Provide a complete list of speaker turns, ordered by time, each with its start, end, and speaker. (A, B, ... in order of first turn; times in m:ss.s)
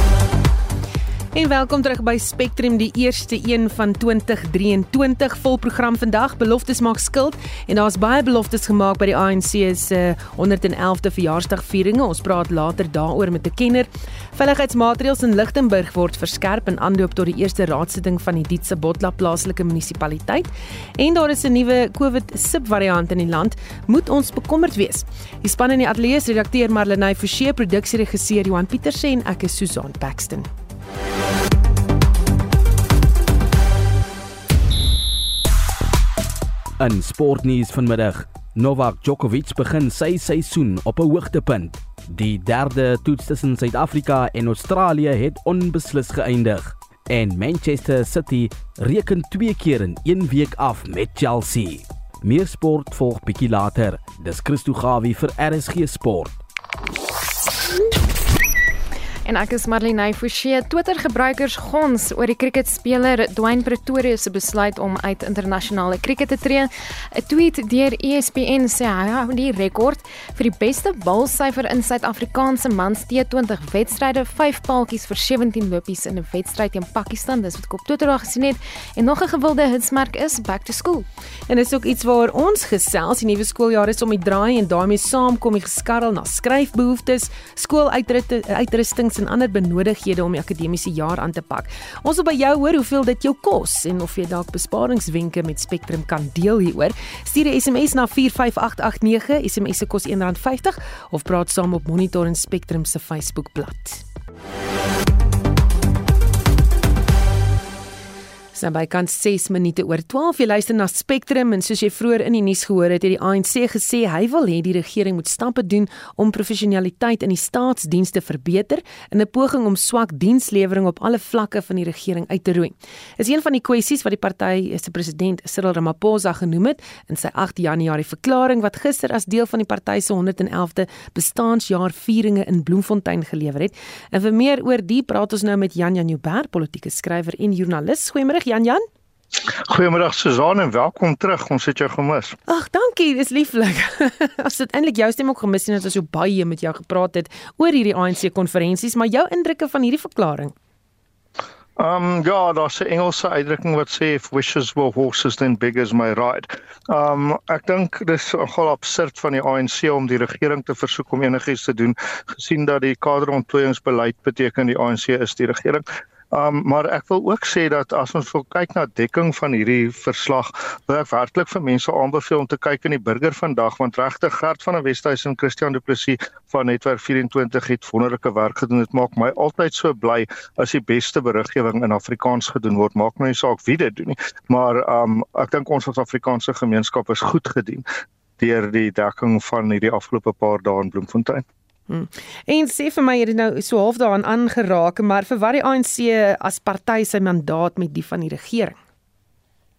0:01.3-0:30.5 A
0:36.8-0:56.4 B
0:59.2-1:21.1 C
1:21.5-1:44.0 A
1:48.6-2:18.8 A
2:19.7-2:22.4 D
2:22.5-2:30.5 A
2:31.8-3:07.9 D
3:08.4-3:11.4 D
3:11.9-3:18.8 A